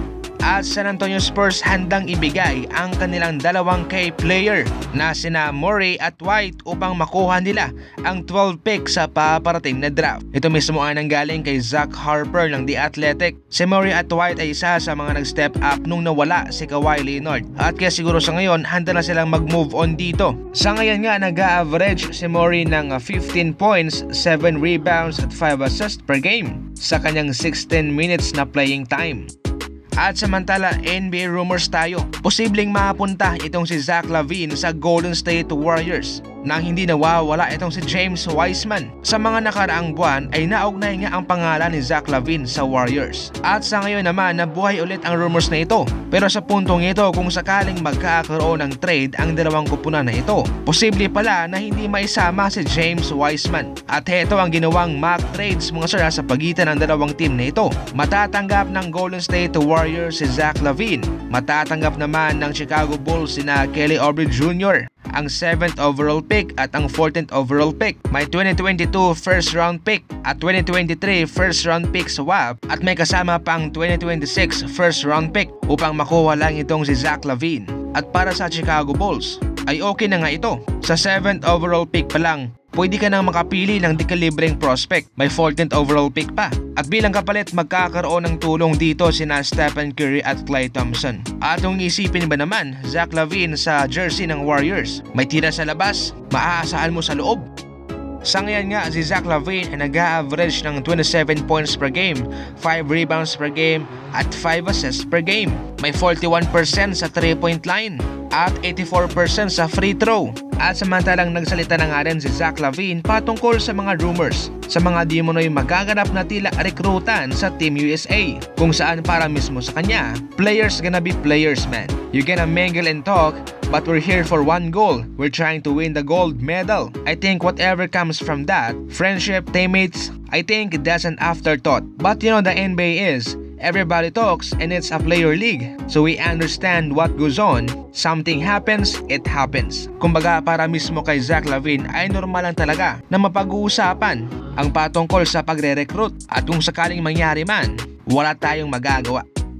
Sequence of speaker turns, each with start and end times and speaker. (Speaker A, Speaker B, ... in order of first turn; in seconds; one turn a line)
Speaker A: 0.4-29.3
Speaker A: 30.0-97.5
Speaker A: 98.2-149.2